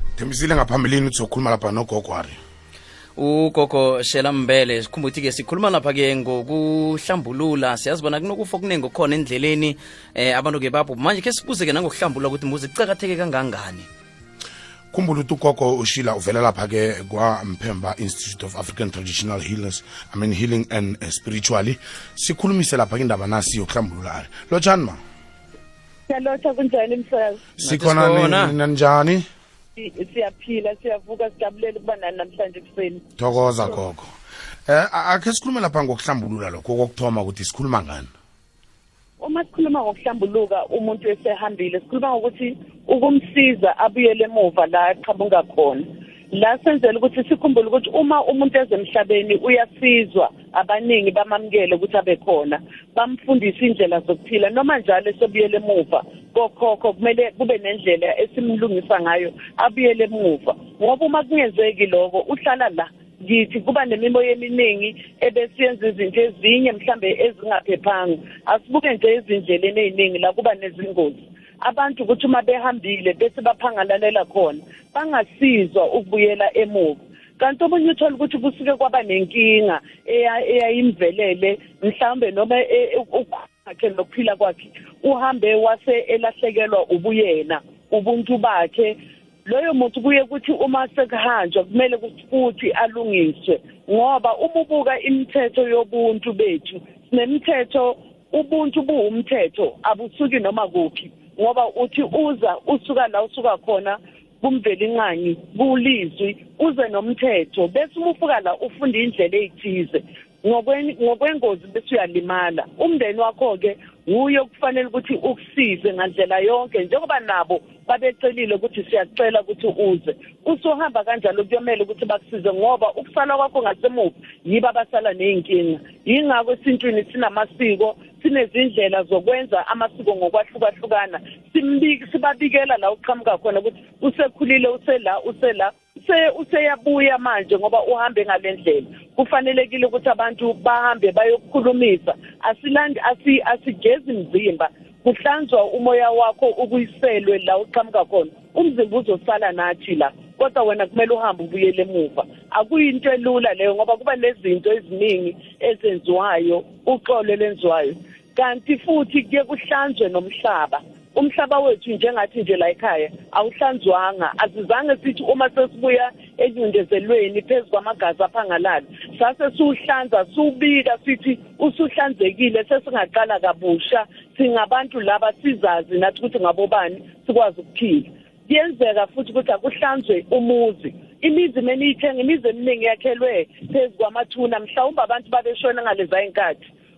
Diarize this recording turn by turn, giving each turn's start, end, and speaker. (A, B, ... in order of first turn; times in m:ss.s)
0:00.2-0:02.4 A
0:03.2-0:13.9 B
0:14.9-0:25.0 A
0:26.1-0:27.4 C
0:27.6-0:29.2 A
0:27.6-0:28.6 B
0:29.8-0:33.0 C
0:33.2-0:34.1 A
0:34.7-0:38.1 A
0:39.2-3:06.6 C